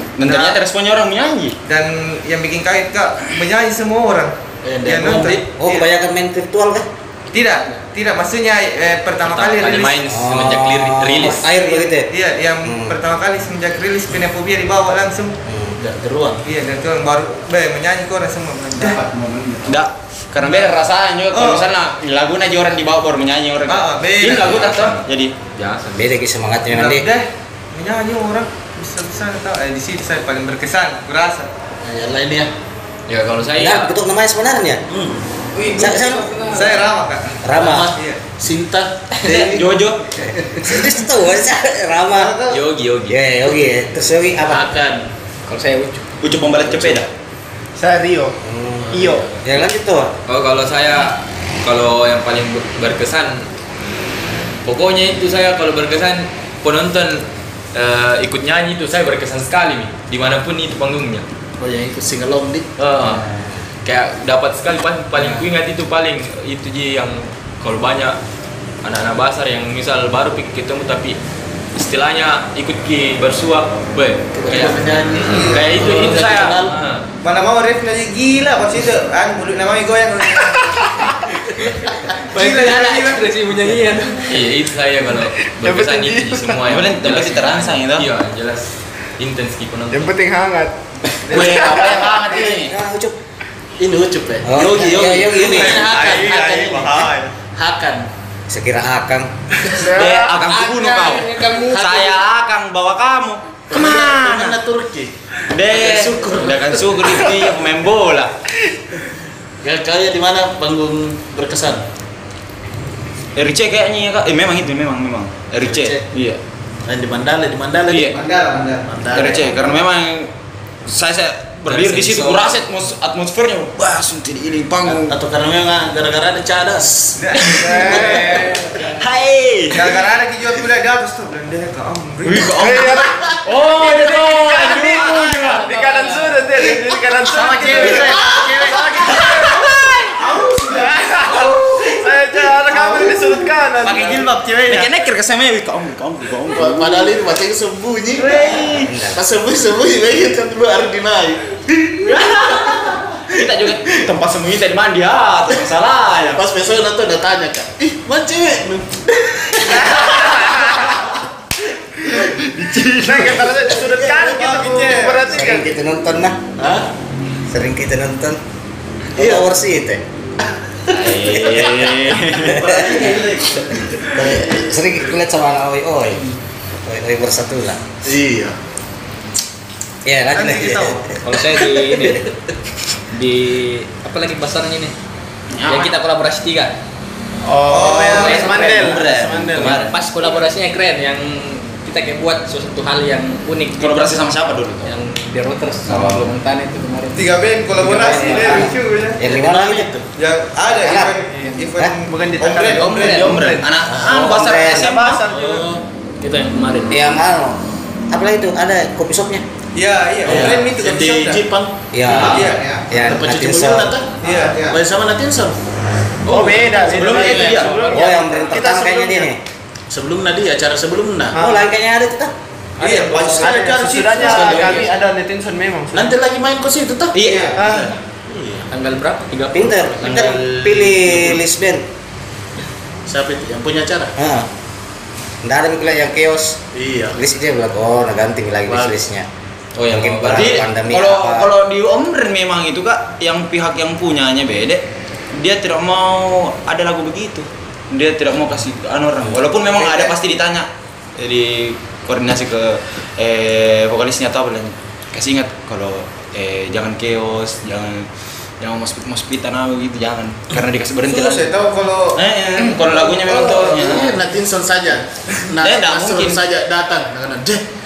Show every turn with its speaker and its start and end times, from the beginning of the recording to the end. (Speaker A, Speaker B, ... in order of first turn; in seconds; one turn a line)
Speaker A: 0.2-1.6
Speaker B: 0.2-0.6
Speaker B: 1.7-5.8
Speaker C: 4.6-5.4
Speaker D: 5.6-6.9
Speaker B: 7.3-10.1
Speaker E: 9.2-11.4
Speaker D: 10.1-12.1
Speaker B: 11.5-15.4
Speaker D: 12.6-13.0
Speaker D: 15.5-15.8
Speaker C: 15.8-16.4
Speaker B: 16.4-19.0
Speaker C: 18.9-19.7
Speaker A: 19.2-25.3
Speaker B: 20.4-20.8
Speaker B: 21.3-21.7
Speaker B: 23.7-24.7
Speaker E: 24.2-25.0
Speaker E: 25.6-26.1
Speaker D: 25.9-27.1
Speaker B: 26.7-31.5
Speaker C: 31.8-32.5
Speaker E: 33.1-33.9
Speaker D: 33.6-34.8
Speaker C: 34.9-35.2
Speaker F: 35.5-36.9
Speaker D: 35.8-36.4
Speaker B: 36.5-37.4
Speaker D: 37.4-37.9
Speaker C: 37.5-40.8
Speaker B: 38.0-38.2
Speaker A: 39.3-40.0
Speaker D: 40.2-42.4
Speaker B: 42.1-42.6
Speaker E: 42.5-43.2
Speaker D: 43.1-44.7
Speaker F: 44.5-46.0
Speaker A: 46.2-47.1
Speaker G: 47.8-48.4
Speaker D: 48.4-50.1
Speaker G: 48.9-49.3
Speaker E: 48.9-49.3
Speaker E: 50.3-53.5
Speaker E: 54.6-61.2
Speaker C: 61.6-62.7
Speaker E: 62.8-63.3
Speaker D: 63.2-63.6
Speaker E: 63.8-68.2
Speaker E: 68.8-71.2
Speaker E: 71.8-77.1
Speaker C: 74.3-76.8
Speaker B: 75.2-75.8
Speaker B: 77.2-80.8
Speaker G: 80.6-81.3
Speaker F: 82.3-84.4
Speaker B: 82.3-83.3
Speaker E: 84.3-90.1
Speaker G: 85.4-86.6
Speaker A: 86.7-88.1
Speaker G: 89.9-90.7
Speaker B: 91.3-91.8
Speaker A: 91.3-92.7
Speaker G: 91.3-92.2
Speaker D: 92.2-93.2
Speaker C: 93.8-98.1
Speaker D: 94.5-95.9
Speaker B: 95.3-97.3
Speaker D: 98.5-99.3
Speaker G: 99.8-100.3
Speaker A: 99.8-104.6
Speaker F: 100.4-102.2
Speaker C: 101.7-102.0
Speaker C: 103.7-107.4
Speaker A: 105.5-108.3
Speaker C: 109.6-111.8
Speaker A: 113.4-116.4
Speaker C: 115.6-116.0
Speaker C: 116.9-118.3
Speaker A: 117.9-118.2
Speaker B: 118.1-118.9
Speaker C: 118.8-119.8
Speaker A: 119.1-120.3
Speaker A: 120.9-125.1
Speaker E: 121.7-122.6
Speaker C: 124.9-127.2
Speaker B: 127.2-128.2
Speaker A: 127.5-130.0
Speaker G: 127.6-128.5
Speaker F: 128.0-128.9
Speaker B: 129.7-132.7
Speaker A: 132.2-135.7
Speaker G: 132.5-139.7
Speaker F: 135.4-136.4
Speaker B: 137.3-139.1
Speaker A: 139.1-140.1
Speaker B: 140.2-142.0
Speaker G: 140.7-144.3
Speaker B: 142.8-143.1
Speaker B: 143.8-144.9
Speaker A: 144.7-147.1
Speaker C: 146.5-153.9
Speaker A: 148.2-148.9
Speaker D: 148.9-149.2
Speaker A: 152.1-156.4
Speaker C: 156.3-160.5
Speaker C: 162.1-162.5
Speaker A: 162.4-163.5
Speaker G: 163.0-165.7
Speaker C: 163.1-164.2
Speaker B: 164.2-165.3
Speaker D: 165.3-166.4
Speaker C: 166.6-166.9
Speaker D: 167.5-168.4
Speaker D: 169.2-170.0
Speaker C: 169.2-169.5
Speaker C: 170.9-171.5
Speaker A: 170.9-172.7
Speaker D: 171.4-173.3
Speaker C: 172.2-175.0
Speaker D: 174.2-176.2
Speaker D: 176.8-177.8
Speaker C: 178.0-178.6
Speaker D: 180.1-182.1
Speaker B: 180.3-181.2
Speaker F: 181.2-182.3
Speaker F: 183.1-184.9
Speaker A: 185.5-186.0
Speaker F: 185.7-186.8
Speaker G: 187.4-189.8
Speaker B: 187.7-188.7
Speaker F: 188.1-189.0
Speaker A: 188.5-190.0
Speaker F: 189.6-194.3
Speaker A: 193.8-195.0
Speaker F: 194.8-198.8
Speaker A: 195.9-196.3
Speaker B: 197.1-199.2
Speaker D: 198.3-198.7
Speaker D: 199.2-199.9
Speaker C: 199.2-200.1
Speaker B: 200.2-203.3
Speaker D: 200.8-201.2
Speaker G: 201.2-203.7
Speaker F: 202.8-203.4
Speaker A: 203.1-205.2
Speaker C: 203.9-204.4
Speaker D: 204.0-205.0
Speaker G: 204.6-205.7
Speaker C: 205.2-205.8
Speaker F: 206.2-207.0
Speaker D: 206.9-209.4
Speaker B: 209.8-211.4
Speaker C: 210.2-215.6
Speaker D: 211.9-213.9
Speaker B: 212.1-212.9
Speaker B: 214.2-214.8
Speaker G: 216.3-219.3
Speaker F: 216.3-218.5
Speaker A: 216.3-217.8
Speaker D: 217.9-219.4
Speaker C: 219.9-221.4
Speaker G: 221.4-221.7
Speaker D: 221.4-222.3
Speaker F: 222.8-223.5
Speaker B: 222.8-224.8
Speaker G: 223.3-226.1
Speaker F: 224.2-225.0
Speaker C: 224.3-224.6
Speaker C: 225.9-228.7
Speaker A: 227.1-227.8
Speaker B: 227.2-227.5
Speaker G: 227.6-227.9
Speaker F: 228.7-231.0
Speaker D: 229.5-231.8
Speaker C: 233.1-234.1
Speaker D: 234.2-234.5
Speaker D: 235.4-236.6
Speaker C: 236.7-237.2
Speaker D: 237.2-239.3
Speaker C: 238.7-239.0
Speaker E: 239.8-240.6
Speaker D: 239.9-241.5
Speaker A: 240.3-244.8
Speaker A: 245.3-258.1
Speaker A: 258.6-261.5
Speaker B: 261.1-264.1
Speaker A: 262.1-264.2
Speaker C: 263.6-267.6
Speaker A: 265.6-266.4